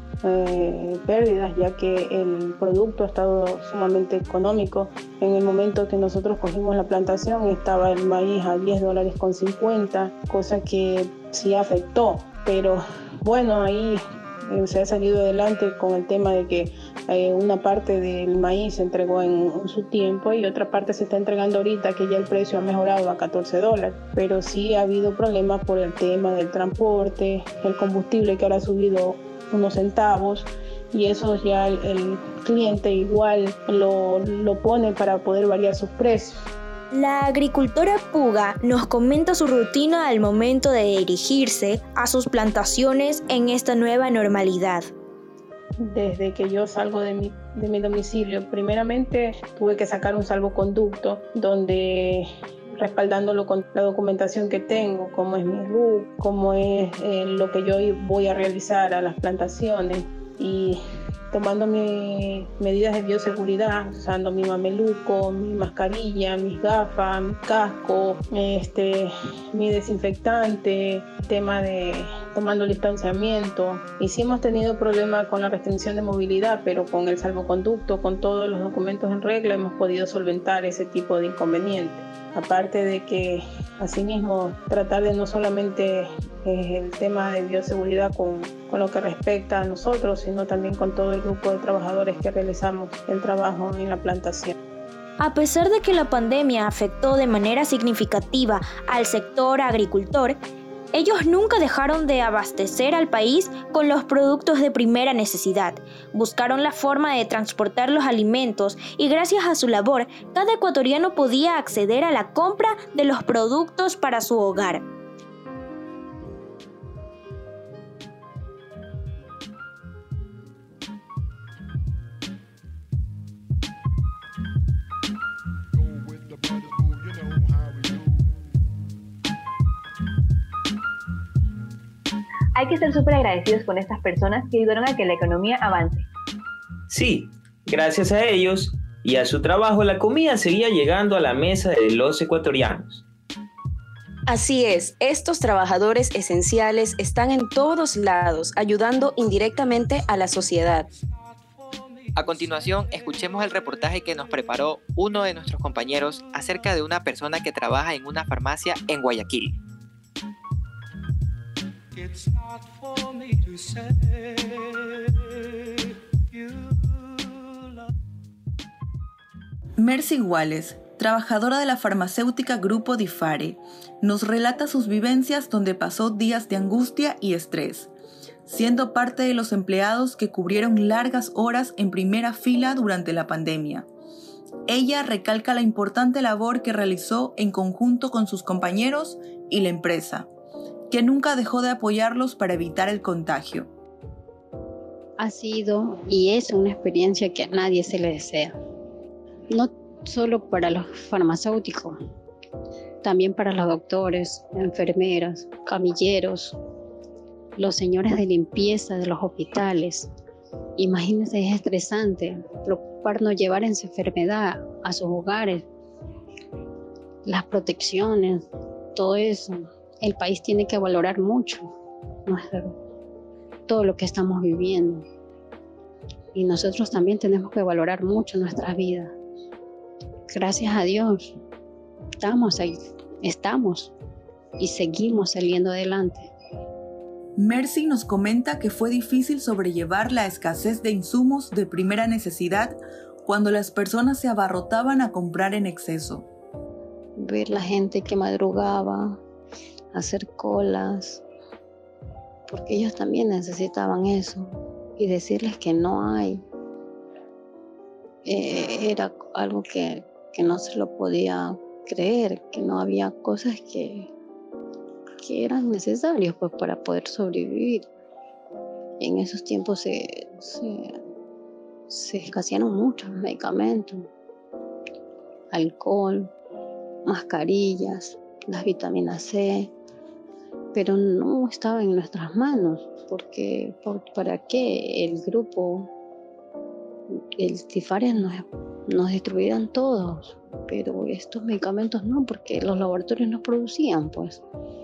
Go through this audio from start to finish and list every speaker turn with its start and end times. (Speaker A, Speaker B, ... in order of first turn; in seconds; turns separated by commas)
Speaker A: 0.2-36.5, Speaker B: 36.9-44.9, Speaker A: 45.8-60.8, Speaker A: 61.3-94.5, Speaker B: 95.2-100.4, Speaker B: 100.9-114.8, Speaker C: 132.5-136.1, Speaker D: 136.9-143.0, Speaker E: 144.3-150.9, Speaker F: 152.1-159.6, Speaker G: 169.8-177.9, Speaker G: 178.4-183.9, Speaker G: 184.7-190.3, Speaker G: 190.9-193.7, Speaker H: 195.2-198.5, Speaker H: 199.5-202.0, Speaker H: 203.0-206.6, Speaker H: 207.6-210.1, Speaker H: 210.8-215.7, Speaker H: 217.2-221.7, Speaker H: 222.2-222.8, Speaker H: 223.7-225.1, Speaker H: 226.3-229.1, Speaker H: 230.3-231.3, Speaker H: 232.2-233.9, Speaker H: 234.6-236.3, Speaker G: 237.4-246.3, Speaker H: 247.2-249.2, Speaker H: 249.9-251.2, Speaker H: 252.5-256.4, Speaker H: 258.2-264.1, Speaker H: 265.2-267.9, Speaker H: 269.0-271.0, Speaker H: 271.9-274.1, Speaker H: 275.5-276.3, Speaker H: 277.0-279.7, Speaker H: 280.7-285.9, Speaker H: 287.1-294.4